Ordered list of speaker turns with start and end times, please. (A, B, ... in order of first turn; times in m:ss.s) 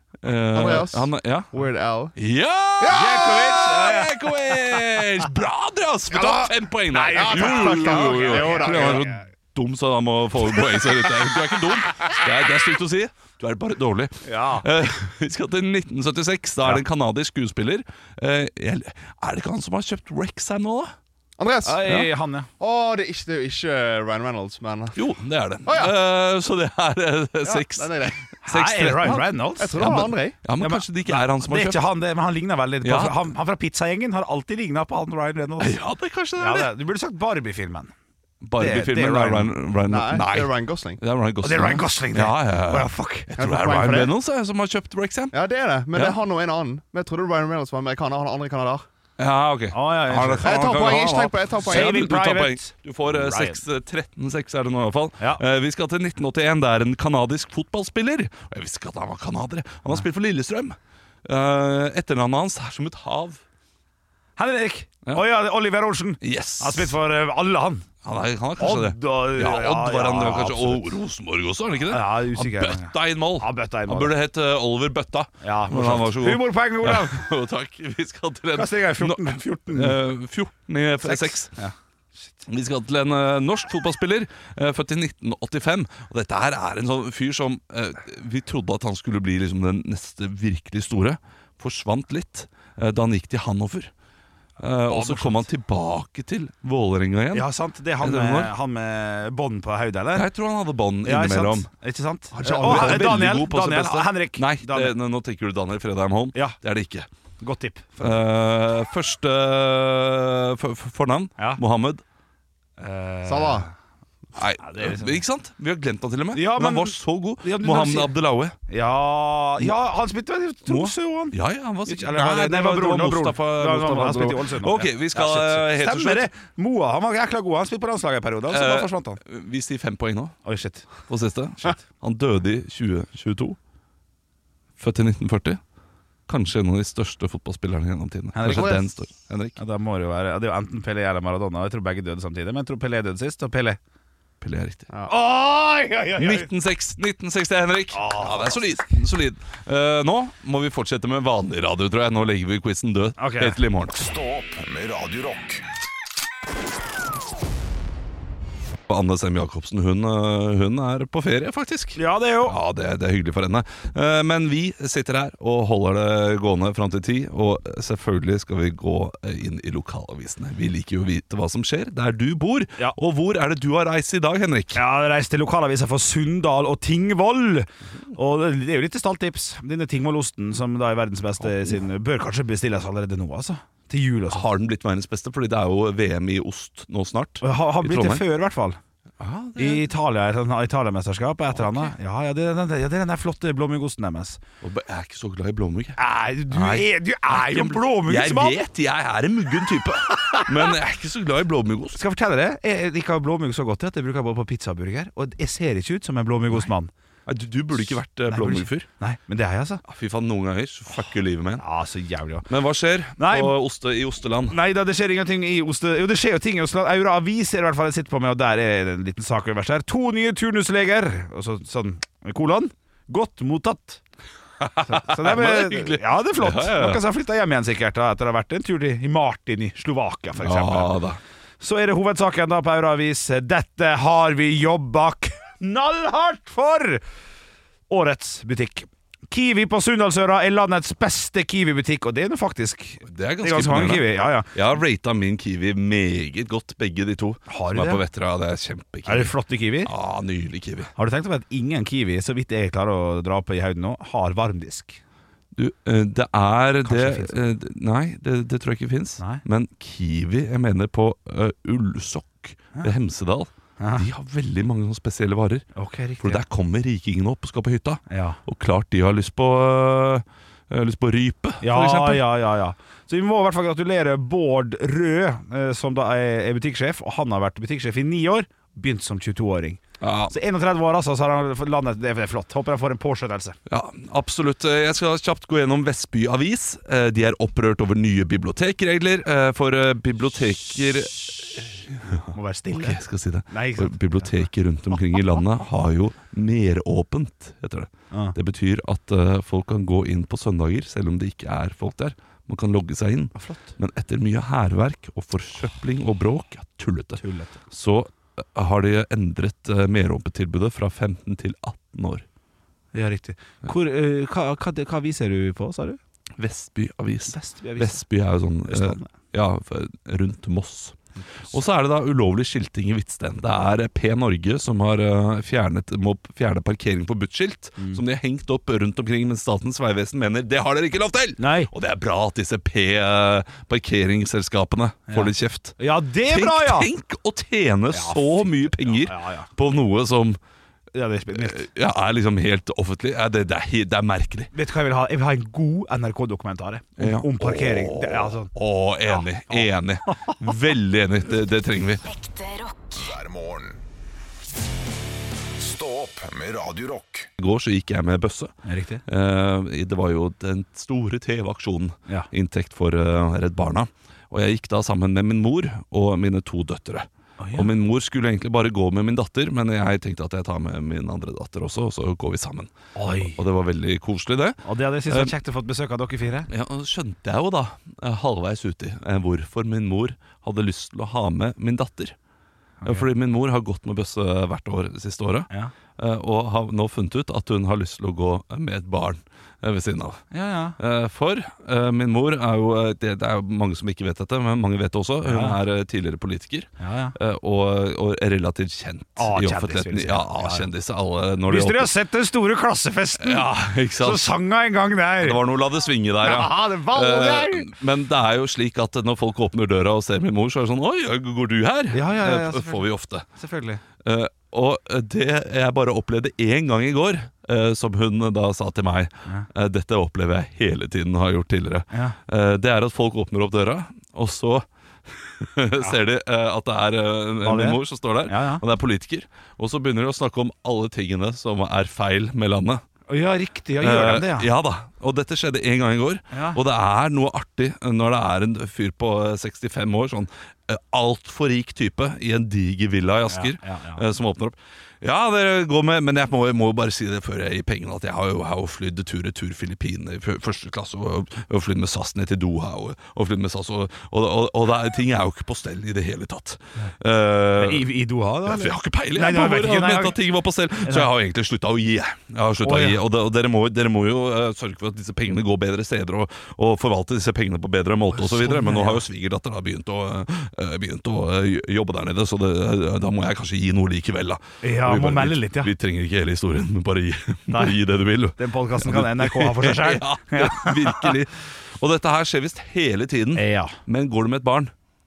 0:00.2-0:01.5 A
0:00.5-0:02.1 B
0:02.2-0:21.0 A
0:02.9-0:04.1 C
0:06.1-0:06.5 B
0:06.9-0:09.1 C
0:07.0-0:09.1 B
0:14.2-0:14.7 C
0:21.4-0:21.9 B
0:21.6-0:22.5 C
0:22.6-0:25.0 B
0:25.0-0:31.9 A
0:25.7-0:26.0 B
0:27.5-0:28.2 B
0:28.4-0:35.8 C
0:29.6-0:30.4 B
0:32.8-0:33.2 A
0:35.6-0:36.7 A
0:36.4-0:37.9 C
0:38.4-0:45.4 A
0:38.6-0:39.5 C
0:39.9-0:41.0 B
0:41.4-0:43.3 C
0:43.4-0:44.1 B
0:45.3-0:48.8 B
0:45.9-0:46.2 A
0:49.2-1:03.4 A
0:49.7-0:50.7 C
0:50.4-0:52.1 B
0:51.6-0:53.6 C
1:04.4-1:07.8 C
1:06.2-1:06.9 A
1:08.0-1:21.6 A
1:08.6-1:10.9 C
1:11.9-1:14.2 C
1:15.4-1:17.2 C
1:18.5-1:20.0 C
1:21.0-1:21.7 C
1:22.5-1:33.9 A
1:34.6-1:37.5 A
1:34.9-1:35.5 C
1:37.3-1:40.3 C
1:38.0-1:38.5 A
1:40.2-1:41.7 A
1:41.0-1:44.9 C
1:42.4-1:43.2 B
1:42.4-1:47.1 A
1:47.4-1:48.2 C
1:48.0-1:52.0 A
1:52.8-1:53.7 C
1:53.2-1:53.7 B
1:54.4-1:58.6 A
1:54.6-1:55.2 C
1:56.3-1:58.1 C
1:58.7-2:01.4 C
2:00.7-2:06.3 A
2:01.9-2:09.2 C
2:08.5-2:10.4 A
2:10.4-2:10.9 C
2:11.1-2:13.6 A
2:14.8-2:15.6 A
2:16.3-2:19.6 A
2:18.4-2:18.8 C
2:19.6-2:23.8 C
2:24.4-2:24.9 A
2:24.9-2:25.2 B
2:25.1-2:26.5 C
2:26.2-2:34.0 A
2:27.9-2:28.7 C
2:33.2-2:33.6 C
2:33.9-2:35.6 D
2:38.9-2:54.8 A
2:42.0-2:42.6 C
2:54.7-3:04.4 C
3:01.4-3:01.8 A
3:04.3-3:08.2 A
3:07.4-3:08.8 C
3:09.2-3:09.9 A
3:09.6-3:14.4 C
3:11.6-3:11.9 A
3:14.6-3:16.0 A
3:16.0-3:18.6 C
3:16.5-3:22.0 A
3:20.2-3:20.7 C
3:22.0-3:26.9 C
3:27.3-3:28.9 A
3:28.3-3:29.8 C
3:29.9-3:31.6 A
3:31.6-3:32.5 C
3:32.5-3:34.6 A
3:33.2-3:33.5 C
3:34.5-3:44.0 C
3:44.6-3:47.0 A
3:44.9-3:50.9 C
3:50.4-3:51.2 A
3:51.6-3:57.0 C
3:57.9-4:04.5 C
4:03.1-4:09.3 A
4:07.5-4:08.0 C
4:09.1-4:09.9 C
4:09.8-4:10.9 A
4:11.0-4:15.0 C
4:15.6-4:25.7 A
4:16.8-4:17.4 C
4:23.8-4:24.0 C
4:25.8-4:26.4 C
4:26.2-4:32.3 A
4:28.1-4:28.4 C
4:31.6-4:43.6 C
4:40.0-4:40.3 A
4:43.7-5:12.2 A
4:52.3-4:54.4 C
4:58.1-4:58.4 C
5:03.4-5:03.7 C
5:07.2-5:07.6 C
5:12.9-5:16.0 C
5:16.4-5:21.0 A
5:17.3-5:18.0 C
5:18.7-5:19.1 C
5:21.5-5:40.4 A
5:31.4-5:31.7 C
5:35.1-5:36.9 C
5:37.9-5:39.5 C
5:40.9-5:41.6 C
5:41.3-5:44.5 A
5:44.5-5:48.5 C
5:47.0-5:52.0 A
5:49.1-5:50.4 C
5:52.9-5:53.8 D
5:55.6-5:57.3 D
5:57.4-5:58.6 A
5:58.6-5:59.0 C
5:59.1-6:15.3 A
6:07.4-6:07.7 C
6:13.0-6:13.4 C
6:14.6-6:16.5 C
6:16.5-6:22.2 A
6:22.8-6:30.2 A
6:30.3-6:30.8 C
6:30.8-6:41.9 A
6:35.2-6:35.6 C
6:36.8-6:37.2 C
6:39.2-6:40.7 C
6:41.5-6:45.4 C
6:43.2-6:44.3 A
6:45.2-6:53.3 A
6:46.2-6:47.7 C
6:51.9-6:53.8 C
6:54.0-7:12.8 A
7:01.9-7:02.2 C
7:07.4-7:08.6 C
7:13.1-7:14.5 C
7:13.8-7:37.9 A
7:16.3-7:16.6 C
7:23.3-7:24.0 C
7:37.6-7:40.2 C
7:38.5-8:04.7 A
7:42.6-7:43.0 C
7:48.1-7:49.0 C
7:54.6-7:55.7 C
7:57.5-7:57.8 C
7:58.4-8:01.2 C
8:03.4-8:03.8 C